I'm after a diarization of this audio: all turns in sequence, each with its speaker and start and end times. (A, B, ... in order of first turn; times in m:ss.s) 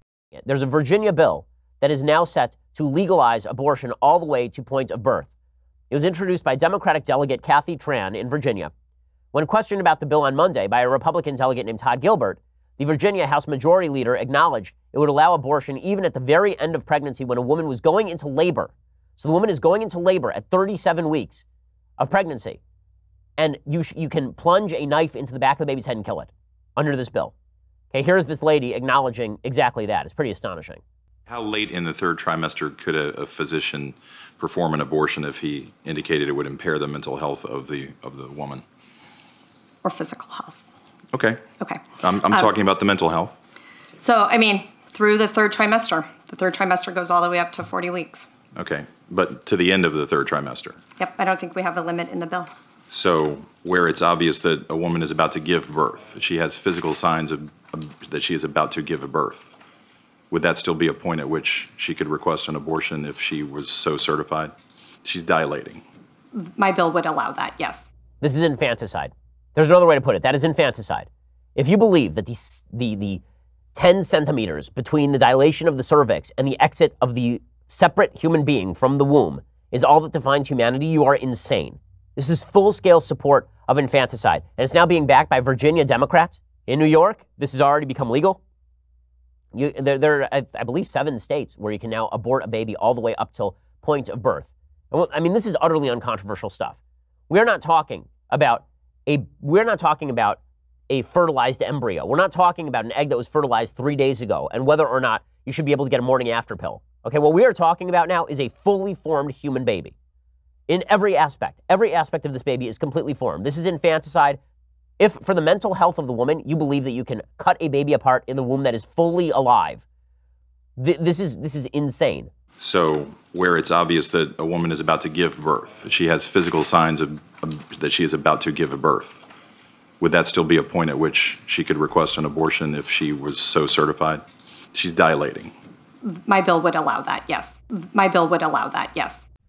0:00.4-0:05.3 A
0:05.9-0:08.7 A
0:09.3-0:21.4 A
0:22.0-0:22.6 A
0:23.4-0:27.3 A
0:27.9-0:30.8 A
0:31.3-0:38.6 B
0:39.8-0:40.6 C
0:41.2-0:41.4 B
0:41.6-0:42.6 C
0:42.0-0:43.4 B
0:44.0-0:48.3 C
0:48.6-0:50.8 B
0:51.0-0:52.5 C
0:52.9-0:59.5 B
1:00.3-1:04.5 B
1:05.0-1:05.8 B
1:06.3-1:07.9 C
1:08.2-1:11.1 A
1:11.6-1:13.2 A
1:13.8-1:28.4 A
1:29.5-1:36.8 A
1:37.3-1:40.4 A
1:40.9-1:49.9 A
1:50.7-1:54.4 A
1:55.0-1:59.8 A
2:00.8-2:02.3 A
2:02.6-2:09.2 B
2:10.0-2:14.2 B
2:14.7-2:15.5 B
2:16.0-2:19.2 C